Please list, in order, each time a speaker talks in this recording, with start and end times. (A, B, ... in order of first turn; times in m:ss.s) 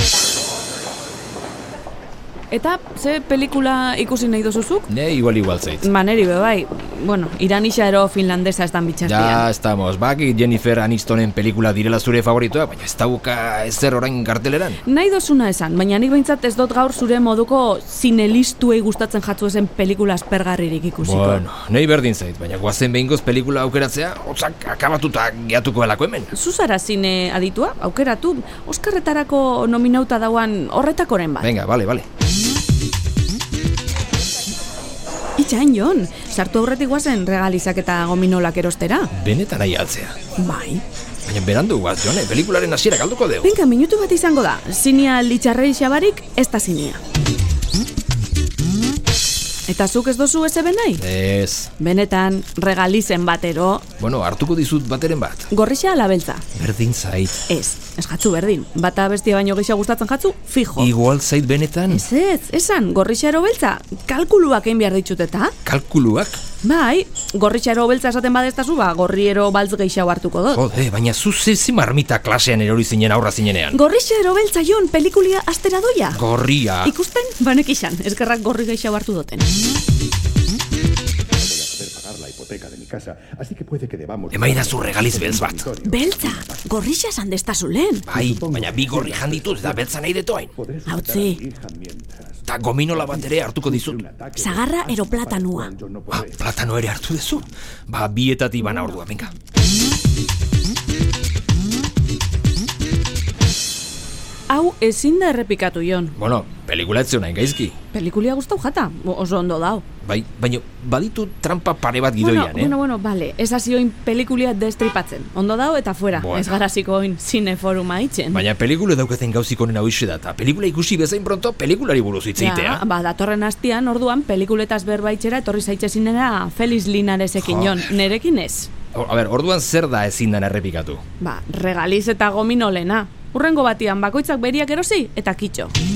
0:02.5-0:04.9 A
0:04.9-0:05.9 B
0:05.8-0:09.4 A
0:09.0-0:14.8 B
0:14.8-0:21.4 A
0:21.0-0:26.3 B
0:26.3-0:31.5 A
0:31.4-0:32.0 B
0:35.4-0:39.1 A
0:39.1-0:40.1 B
0:40.4-0:40.8 A
0:41.2-0:43.5 B
0:43.4-0:47.0 A
0:49.7-0:51.0 A
0:51.0-0:51.7 B
0:51.8-0:53.8 A
0:54.0-0:55.5 B
0:55.5-0:56.4 A
0:56.5-0:57.4 B
0:57.5-1:00.9 A
1:00.8-1:02.0 B
1:01.9-1:05.5 A
1:05.6-1:06.4 B
1:06.6-1:10.6 A
1:10.5-1:13.8 B
1:13.7-1:16.2 A
1:16.1-1:16.9 B
1:16.8-1:19.5 A
1:21.4-1:24.6 C
1:24.3-1:25.7 B
1:25.3-1:25.9 C
1:25.8-1:28.1 A
1:28.1-1:30.5 B
1:28.2-1:29.2 C
1:30.8-1:32.1 C
1:30.8-1:31.4 A
1:32.5-1:34.0 B
1:34.0-1:36.2 C
1:34.4-1:35.7 A
1:36.1-1:39.3 B
1:44.5-1:46.1 A
1:46.2-1:47.7 B
1:47.9-1:49.8 A
1:50.0-1:52.7 B
1:52.2-1:58.4 A
1:56.2-1:56.6 B
1:58.3-2:02.8 B
2:02.4-2:08.7 A
2:07.4-2:07.9 B
2:08.9-2:11.0 B
2:11.2-2:15.7 A